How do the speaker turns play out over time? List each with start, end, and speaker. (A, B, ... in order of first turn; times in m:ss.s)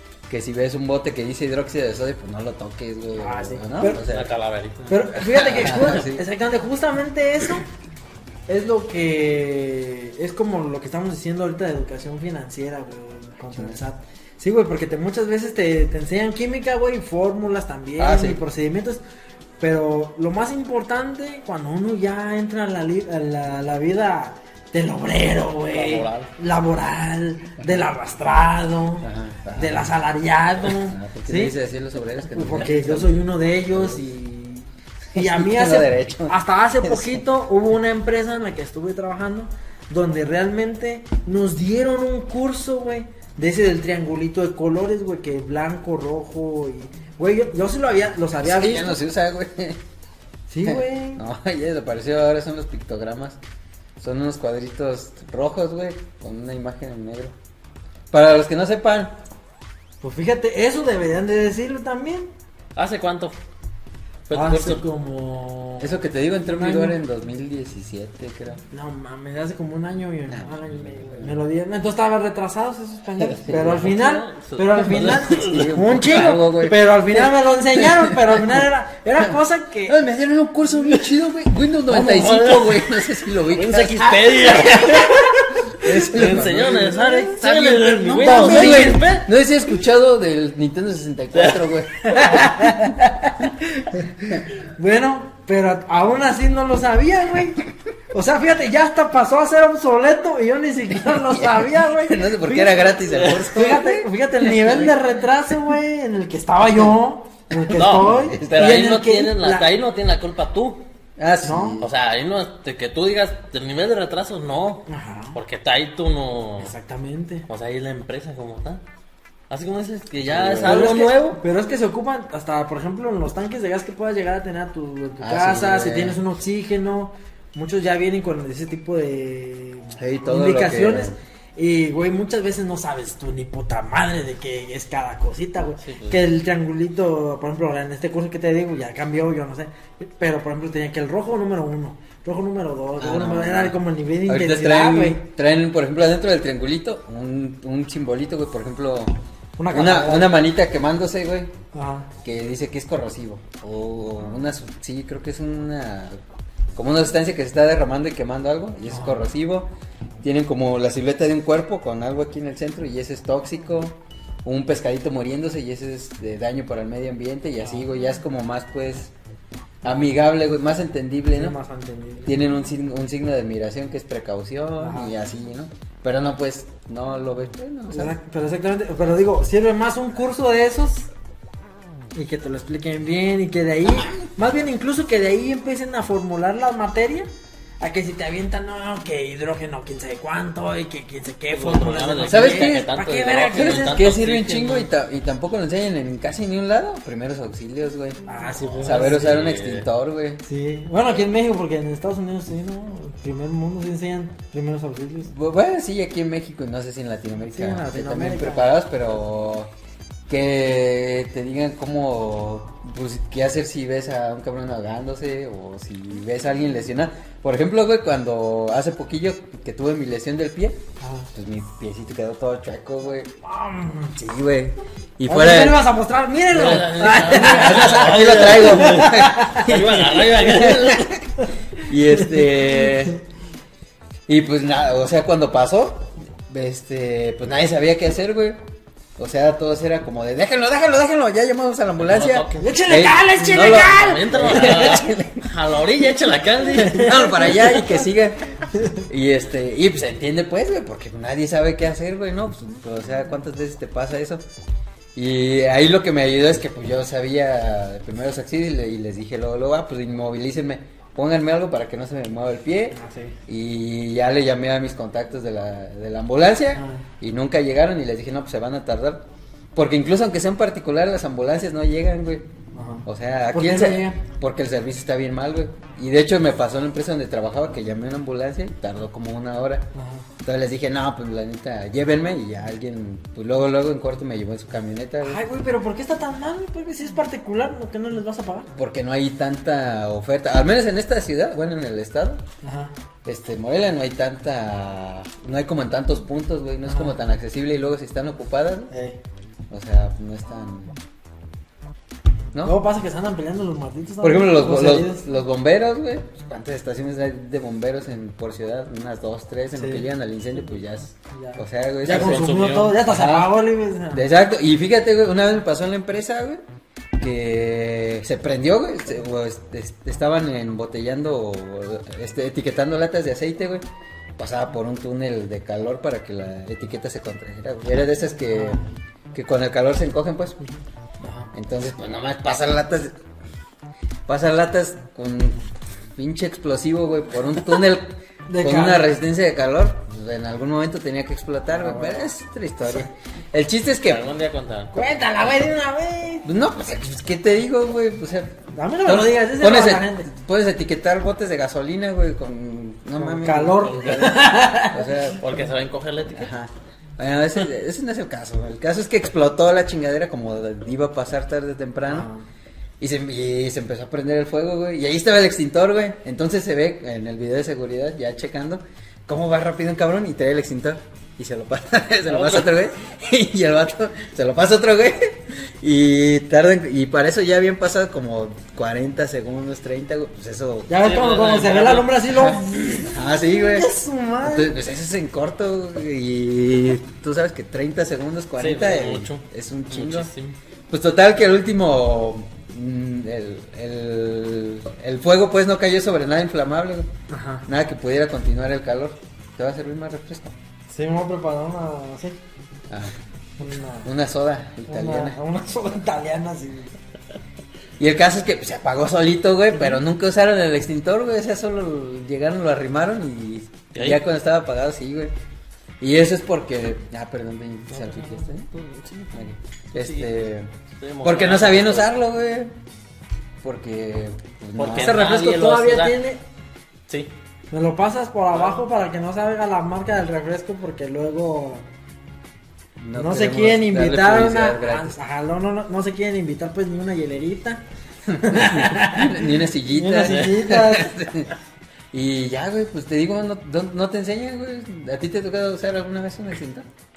0:00.3-0:04.3 A
0:03.2-0:04.0 B
0:03.9-0:04.9 C
0:04.9-0:07.6 B
0:05.1-0:06.2 A
0:08.5-0:19.0 B
0:18.0-0:18.4 A
0:19.6-0:31.5 B
0:25.7-0:26.3 C
0:29.0-0:30.0 A
0:30.7-0:33.2 A
0:32.3-0:49.0 B
0:33.7-0:34.0 A
0:35.1-0:37.2 A
0:48.4-0:49.8 A
0:50.5-0:51.2 B
0:50.6-0:53.4 A
0:54.0-0:57.3 A
0:58.1-0:59.2 A
1:00.0-1:02.3 B
1:02.8-1:03.4 C
1:04.3-1:04.8 C
1:04.3-1:07.0 B
1:05.8-1:08.6 A
1:08.7-1:20.0 B
1:10.3-1:11.4 A
1:13.2-1:13.7 A
1:13.5-1:16.4 C
1:14.9-1:18.6 A
1:19.9-1:33.5 A
1:20.6-1:21.1 B
1:21.9-1:22.5 B
1:21.9-1:25.2 C
1:25.1-1:29.0 B
1:26.1-1:29.3 C
1:31.4-1:31.7 C
1:32.1-1:32.9 B
1:33.8-1:49.7 B
1:41.1-1:44.1 A
1:43.2-1:43.6 C
1:44.4-1:44.9 C
1:47.7-1:48.8 A
1:47.7-1:50.8 C
1:51.2-1:51.9 A
1:51.4-1:51.8 B
1:51.8-1:56.7 C
1:54.9-1:55.4 B
1:56.6-1:57.4 B
1:57.5-1:58.8 C
1:59.5-2:01.4 C
2:00.2-2:01.0 A
2:00.6-2:25.2 B
2:05.2-2:06.2 A
2:10.0-2:11.2 A
2:15.8-2:16.3 C
2:23.0-2:29.2 A
2:29.6-2:30.4 B
2:29.7-2:31.5 A
2:31.7-2:32.1 B
2:32.2-2:36.2 A
2:36.7-2:39.7 A
2:38.9-2:39.3 B
2:40.2-2:49.1 A
2:47.6-2:47.9 B
2:49.8-2:51.5 A
2:51.3-2:52.4 B
2:52.2-2:58.2 A
2:54.8-2:55.2 B
2:57.9-3:01.1 B
3:02.1-3:07.3 B
3:07.8-3:14.0 B
3:11.5-3:14.9 C
3:12.2-3:12.9 A
3:13.5-3:18.2 A
3:18.2-3:19.3 B
3:18.6-3:19.9 C
3:18.8-3:20.4 A
3:20.4-3:25.3 B
3:25.2-3:29.7 A
3:27.5-3:28.7 B
3:30.3-3:40.8 A
3:41.0-3:41.3 B
3:41.3-3:43.4 A
3:43.4-3:44.1 B
3:44.1-3:45.8 A
3:45.3-3:50.5 B
3:46.5-3:51.1 C
3:47.2-3:53.2 A
3:52.1-3:53.1 B
3:54.3-3:58.6 A
3:59.2-4:05.5 A
4:02.0-4:02.6 C
4:02.5-4:05.0 B
4:03.6-4:07.1 C
4:06.8-4:08.0 B
4:06.8-4:08.5 A
4:09.0-4:14.4 A
4:15.1-4:29.2 A
4:22.9-4:23.4 B
4:26.7-4:27.0 B
4:29.7-4:32.4 A
4:32.7-4:34.2 B
4:33.0-4:39.8 A
4:39.9-4:40.2 B
4:40.4-4:45.4 A
4:45.2-4:48.7 B
4:48.7-4:52.4 A
4:52.6-4:52.9 B
4:53.2-4:58.9 A
4:56.8-4:57.2 B
4:58.9-4:59.2 B
4:59.7-5:01.0 A
5:02.6-5:05.2 B
5:04.2-5:13.6 A
5:09.7-5:10.0 B
5:11.3-5:14.2 B
5:12.1-5:13.0 C
5:14.1-5:16.6 A
5:17.2-5:23.8 A
5:24.4-5:30.6 A
5:28.5-5:28.9 B
5:30.6-5:31.5 B
5:31.5-5:33.1 A
5:34.3-5:35.6 A
5:36.1-5:44.3 A
5:38.5-5:39.2 B
5:41.7-5:42.3 B
5:42.8-5:43.1 B
5:44.0-5:44.9 C
5:44.9-5:46.5 B
5:46.4-5:55.4 A
5:48.7-5:50.3 B
5:53.2-5:55.3 B
5:55.2-5:56.5 C
5:56.3-6:02.3 A
6:02.0-6:02.5 B
6:03.0-6:20.9 A
6:12.3-6:12.7 C
6:20.9-6:24.8 B
6:21.0-6:22.2 C
6:22.4-6:23.9 A
6:24.4-6:30.3 A
6:28.6-6:30.6 C
6:30.9-6:37.1 A
6:37.3-6:37.7 B
6:37.7-6:40.5 A
6:40.9-6:42.4 B
6:42.9-6:43.1 A
6:43.6-6:44.1 B
6:44.0-6:45.4 A
6:44.9-6:46.9 B
6:48.0-6:55.3 A
6:49.7-6:50.0 B
6:53.9-6:54.2 C
6:56.0-6:58.7 A
6:57.9-6:59.4 C
6:59.3-7:02.7 A
6:59.9-7:00.3 C
7:00.9-7:02.1 C
7:03.6-7:05.2 A
7:04.8-7:06.2 C
7:04.9-7:06.4 B
7:07.7-7:11.9 B
7:13.0-7:15.2 A
7:13.1-7:17.8 B
7:18.3-7:21.5 A
7:18.4-7:21.1 B
7:22.1-7:26.9 A